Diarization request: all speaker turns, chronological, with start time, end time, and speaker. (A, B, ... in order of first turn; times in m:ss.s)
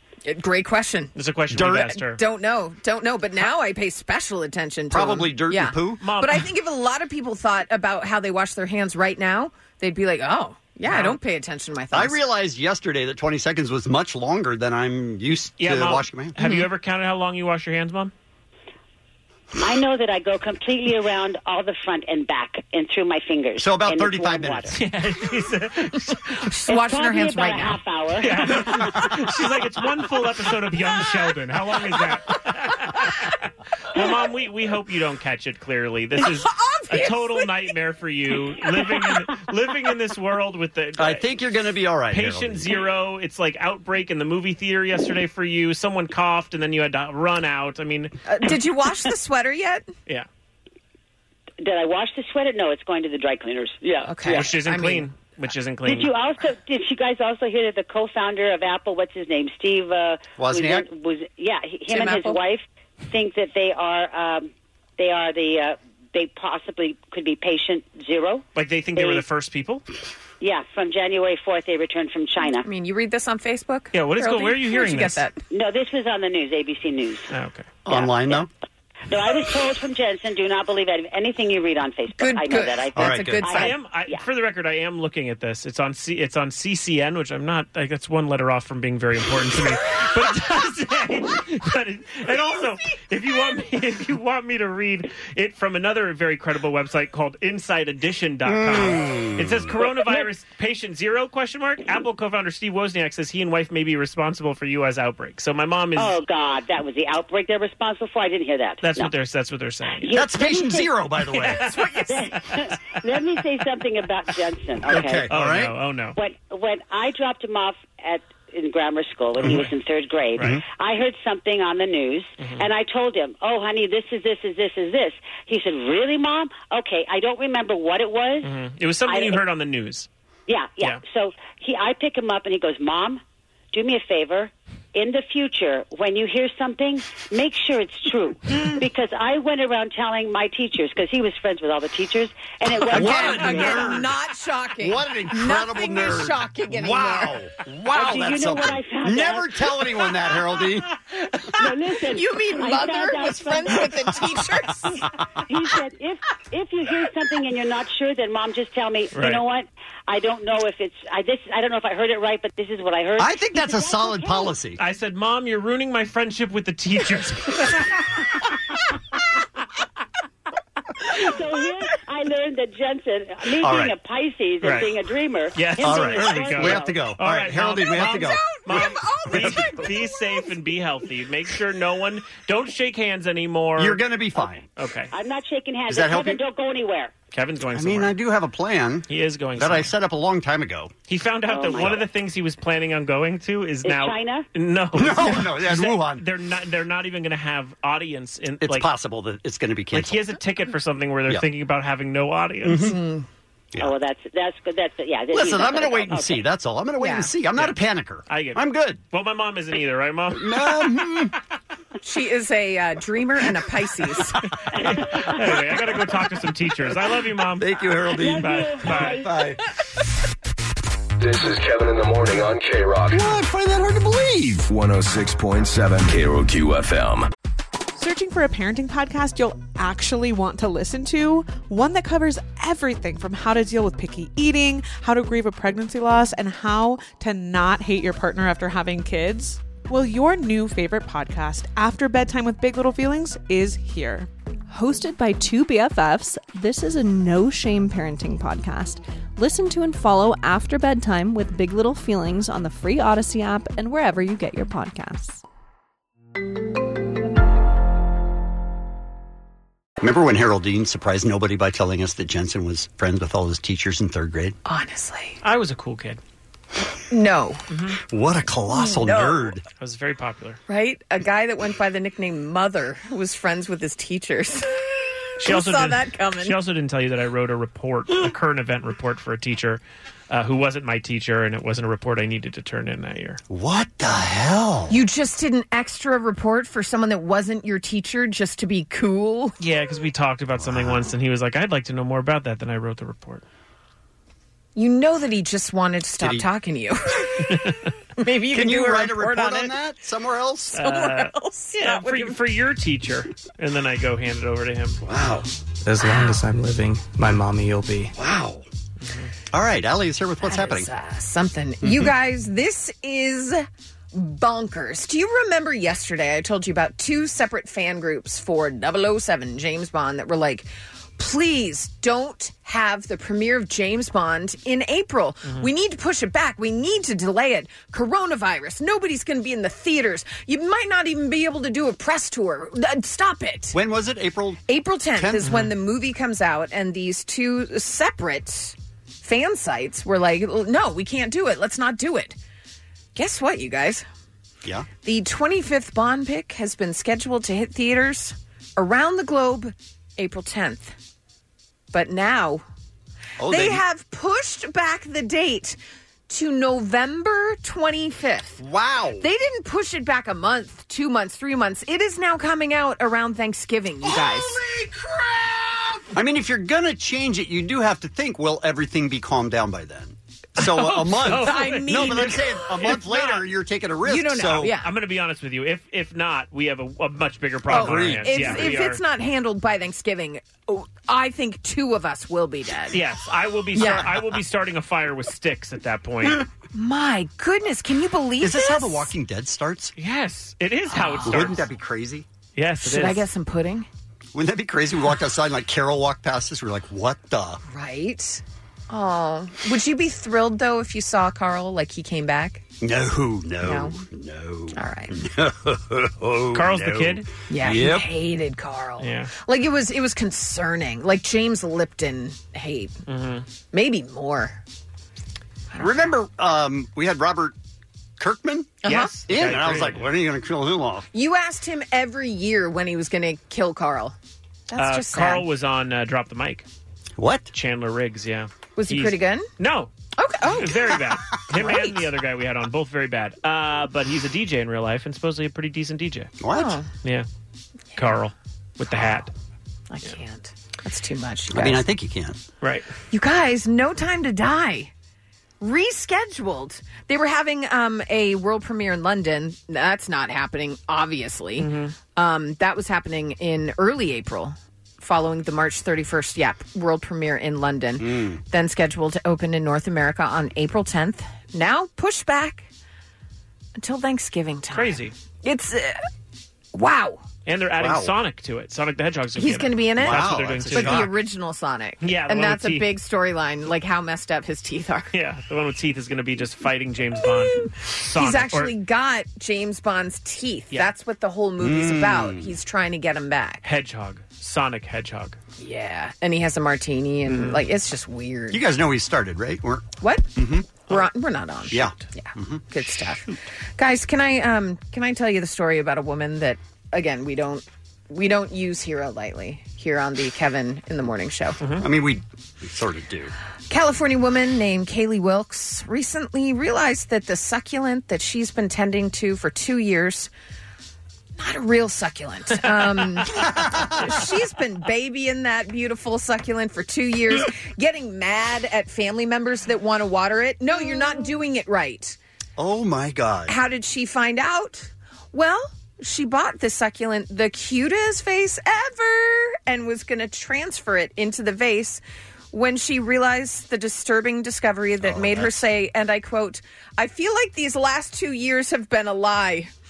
0:00.2-0:12.2 A
0:01.2-0:02.2 B
0:01.5-0:01.9 C
0:04.9-0:06.0 C
0:06.0-0:06.4 B
0:10.8-0:11.2 B
0:11.9-0:16.4 C
0:15.6-0:18.1 B
0:16.4-0:16.7 A
0:19.6-0:24.7 D
0:23.6-0:24.7 C
0:24.7-0:26.3 B
0:26.3-0:27.8 A
0:26.7-0:28.5 D
0:28.2-0:41.2 B
0:36.2-0:37.5 A
0:41.0-0:42.8 C
0:42.1-0:48.2 B
0:48.3-0:49.9 A
0:51.6-0:54.5 D
0:54.0-0:55.0 A
0:54.2-0:56.1 B
0:55.8-1:08.4 D
1:00.4-1:00.8 C
1:01.9-1:02.4 A
1:08.5-1:09.8 B
1:09.0-1:09.2 D
1:10.4-1:12.6 D
1:12.6-1:15.4 A
1:13.9-1:15.2 B
1:15.5-1:17.3 D
1:17.3-1:17.7 B
1:17.8-1:18.5 C
1:17.9-1:18.4 D
1:19.1-1:24.2 D
1:22.2-1:23.8 A
1:22.9-1:23.5 C
1:23.5-1:46.1 B
1:38.4-1:39.7 C
1:46.0-1:49.1 D
1:48.8-1:50.2 B
1:50.0-1:50.9 D
1:50.1-1:51.7 C
1:51.3-1:51.8 B
1:51.6-1:52.3 A
1:52.1-1:55.3 D
1:54.9-1:55.7 C
1:55.3-1:56.2 B
1:56.2-2:08.5 D
2:00.4-2:00.6 B
2:02.4-2:02.6 B
2:08.4-2:10.1 B
2:09.1-2:09.4 D
2:10.5-2:13.2 D
2:13.7-2:23.8 D
2:22.9-2:24.1 C
2:22.9-2:27.4 A
2:24.8-2:30.9 C
2:27.9-2:29.7 D
2:31.6-2:34.1 D
2:32.0-2:35.1 A
2:35.5-2:44.5 D
2:39.1-2:39.4 B
2:43.2-2:44.8 C
2:44.8-2:48.0 B
2:51.1-2:57.0 D
2:53.6-2:53.9 C
2:54.6-2:54.9 B
2:55.5-3:04.0 B
2:55.8-2:59.8 C
2:57.9-3:00.4 A
3:03.8-3:04.6 C
3:04.7-3:05.1 B
3:05.1-3:07.1 D
3:05.9-3:06.4 C
3:07.3-3:08.1 B
3:07.7-3:10.9 C
3:09.1-3:09.9 B
3:11.1-3:18.9 B
3:11.5-3:12.0 D
3:13.8-3:14.4 D
3:14.9-3:16.2 C
3:18.6-3:20.2 C
3:19.9-3:22.9 B
3:22.6-3:23.0 C
3:22.7-3:23.2 A
3:23.8-3:26.4 D
3:25.3-3:29.0 C
3:27.0-3:27.3 A
3:28.3-3:30.9 B
3:30.3-3:31.3 C
3:32.0-3:34.4 A
3:34.8-3:35.0 D
3:34.8-3:39.2 B
3:37.6-3:39.6 C
3:38.2-3:39.4 D
3:41.2-3:43.2 E
3:43.1-3:44.6 C
3:44.5-3:47.3 E
3:48.0-4:04.3 F
4:04.7-4:15.4 G
4:20.0-4:24.6 C
4:24.6-4:25.4 A
4:25.4-4:26.2 B
4:27.1-4:27.6 A
4:27.7-4:28.0 B
4:28.1-4:29.6 C
4:28.7-4:29.6 A
4:29.8-4:30.6 B
4:30.7-4:36.6 A
4:35.4-4:43.4 B
4:43.5-4:45.0 C
4:44.9-4:49.6 A
4:49.6-4:53.4 B
4:50.6-4:51.1 C
4:54.8-4:57.6 A
4:56.2-4:56.5 C
4:57.5-4:57.8 B
4:58.2-4:59.8 A
4:58.5-5:00.8 C
5:00.7-5:05.0 B
5:00.7-5:02.4 A
5:05.0-5:05.5 C
5:05.9-5:08.1 H
5:06.0-5:06.4 A
5:08.1-5:08.6 C
5:09.0-5:09.3 B
5:09.5-5:10.9 C
5:10.4-5:33.8 A
5:11.8-5:12.1 C
5:33.7-5:34.6 C
5:34.7-5:42.4 A
5:35.2-5:35.5 C
5:35.4-5:35.7 B
5:43.1-5:44.0 A
5:45.0-5:50.9 A
5:51.9-5:52.6 A
5:53.4-5:53.8 C
5:53.4-5:55.8 A
5:56.3-5:58.6 A
5:58.6-5:59.2 C
5:59.2-6:04.6 A
6:06.1-6:14.7 C
6:10.8-6:12.5 A
6:11.2-6:13.4 B
6:14.0-6:14.9 A
6:14.8-6:19.0 B
6:17.7-6:18.7 C
6:17.7-6:23.0 A
6:22.9-6:26.4 B
6:23.7-6:24.2 A
6:26.7-6:29.1 A
6:28.4-6:29.9 C
6:30.0-6:31.6 B
6:30.9-6:31.6 A
6:31.2-6:32.2 C
6:32.6-6:33.2 B
6:32.8-6:33.9 A
6:34.3-6:37.6 C
6:37.7-6:42.6 A
6:42.8-6:48.1 C
6:43.6-6:44.0 A
6:44.7-6:45.2 A
6:46.5-6:47.2 B
6:47.5-6:52.9 A
6:49.0-6:49.3 B
6:53.1-6:53.4 B
6:53.7-6:54.6 A
6:55.7-6:56.2 A
6:55.8-6:57.5 C
6:58.2-7:01.1 C
6:58.8-6:59.1 A
6:58.9-7:00.1 B
7:01.1-7:04.1 A
7:04.7-7:05.4 A
7:04.8-7:06.6 B
7:07.2-7:07.5 C
7:07.5-7:09.9 B
7:08.8-7:09.5 A
7:10.2-7:12.0 A
7:10.4-7:16.3 B
7:16.4-7:16.8 C
7:16.5-7:16.9 A
7:17.9-7:19.3 B
7:19.9-7:21.8 A
7:21.5-7:22.4 C
7:22.6-7:22.9 B
7:23.1-7:24.9 A
7:25.6-7:42.7 A
7:31.6-7:31.9 B
7:38.0-7:38.4 C
7:43.8-7:46.0 A
7:44.7-7:45.1 B
7:46.7-7:47.2 A
7:47.4-7:51.1 B
7:47.8-7:48.1 C
7:49.4-7:55.1 A
7:50.0-7:51.1 C
7:52.0-7:52.9 B
7:55.1-7:58.7 B
7:58.1-8:03.6 A
8:01.6-8:02.5 C
8:03.6-8:05.4 B
8:05.6-8:08.6 A
8:07.3-8:07.6 B
8:08.5-8:10.7 C
8:10.0-8:10.3 A
8:10.9-8:21.6 A
8:11.7-8:12.6 C
8:21.8-8:23.3 C
8:23.7-8:30.3 A
8:31.4-8:42.2 A
8:33.3-8:34.2 C
8:42.6-8:43.5 C
8:43.5-8:59.7 A
8:55.0-8:55.7 C